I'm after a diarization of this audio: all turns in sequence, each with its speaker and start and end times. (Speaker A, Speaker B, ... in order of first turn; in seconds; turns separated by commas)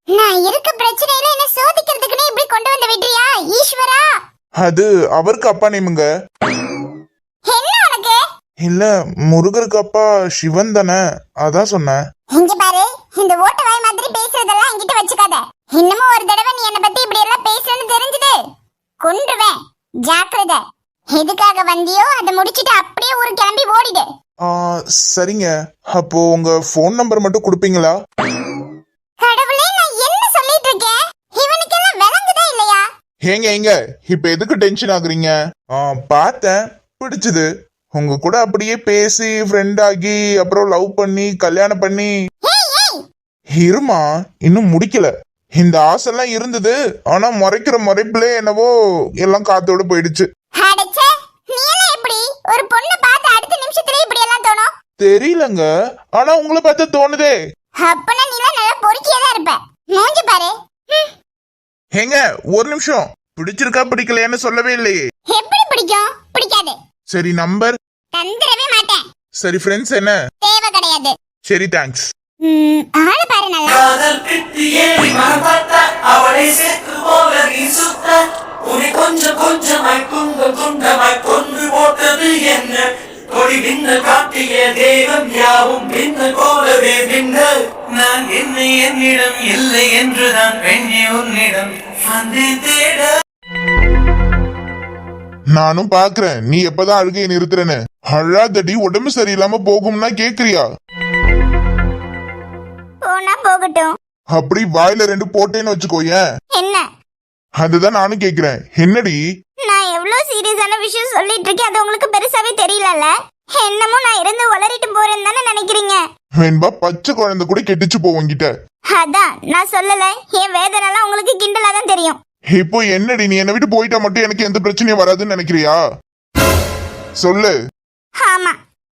Speaker A: 0.1-4.1, Speaker B: 4.6-6.0, Speaker A: 7.5-8.2, Speaker B: 8.7-12.0, Speaker A: 12.3-18.4, Speaker A: 19.0-20.6, Speaker A: 21.1-24.1, Speaker B: 24.5-27.9, Speaker A: 29.2-32.8, Speaker B: 33.3-42.1, Speaker A: 42.4-43.0, Speaker B: 43.6-48.7, Speaker B: 49.2-50.3, Speaker A: 50.6-54.7, Speaker B: 55.0-55.7, Speaker B: 56.2-57.4, Speaker A: 57.8-61.1, Speaker B: 62.0-65.0, Speaker A: 65.3-66.8, Speaker B: 67.1-67.7, Speaker A: 68.1-69.0, Speaker B: 69.4-70.2, Speaker A: 70.4-71.1, Speaker B: 71.5-72.1, Speaker A: 72.4-73.9, Speaker C: 73.9-93.1, Speaker B: 95.6-100.7, Speaker A: 103.1-103.9, Speaker B: 104.3-106.2, Speaker A: 106.6-106.8, Speaker B: 107.6-109.2, Speaker A: 109.7-116.0, Speaker B: 116.4-118.5, Speaker A: 118.9-122.2, Speaker B: 122.5-125.8, Speaker B: 127.2-127.5, Speaker A: 128.2-128.6